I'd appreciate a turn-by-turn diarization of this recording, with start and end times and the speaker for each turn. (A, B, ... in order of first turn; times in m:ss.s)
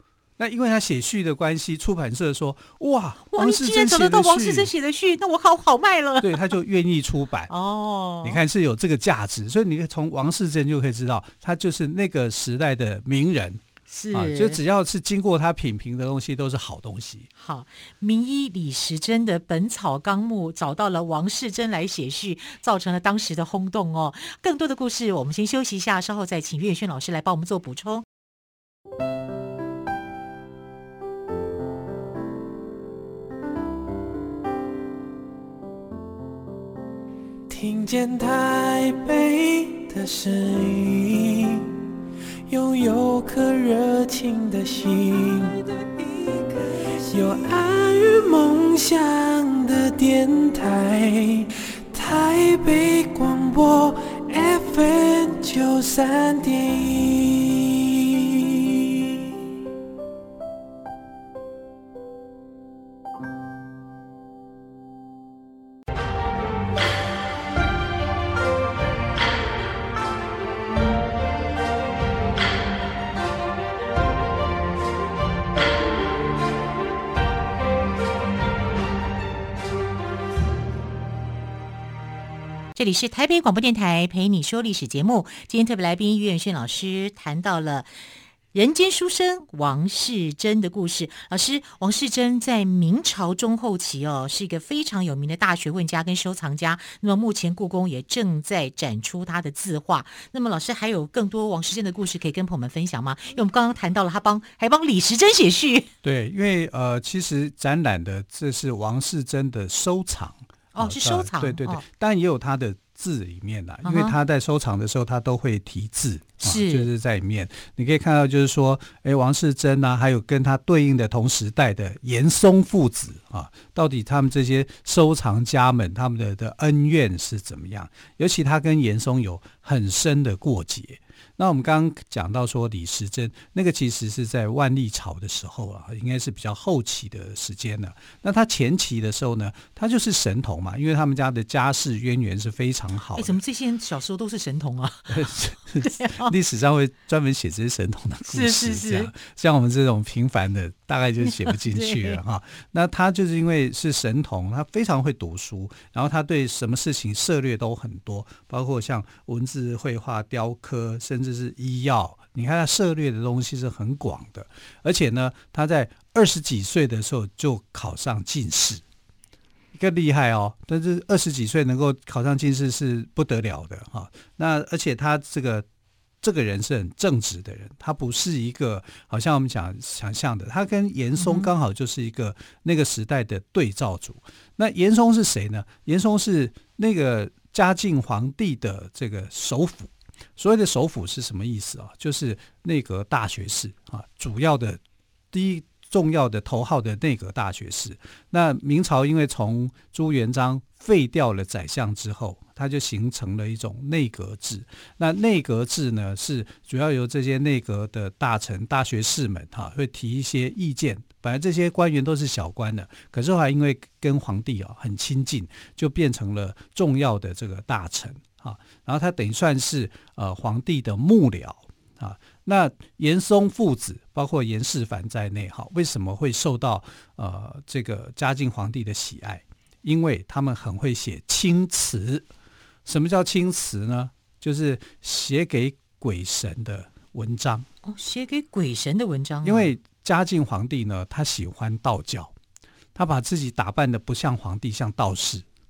0:00.4-0:04.7 A
0:03.3-0:06.5 B
0:06.2-0:07.5 A
0:07.5-0:08.4 B
0:08.2-0:17.3 A
0:13.9-0:14.6 B
0:17.4-0:28.0 B
0:37.5-0:41.8 C
0:42.5-0:59.3 C
1:22.8-1:27.9 B
1:28.5-1:45.9 B
1:46.0-2:23.4 A
1:50.8-1:51.8 B
1:53.8-1:54.2 B
1:56.4-1:56.9 B
2:23.2-2:26.3 B
2:25.1-2:48.8 A
2:28.3-2:29.1 B
2:31.2-2:32.2 B
2:49.8-2:55.7 A
2:56.2-3:14.8 A
3:01.2-3:01.5 B
3:15.3-3:52.3 A
3:52.9-3:57.7 A
3:57.8-3:59.7 B
3:59.4-4:02.3 A
4:03.0-4:05.4 A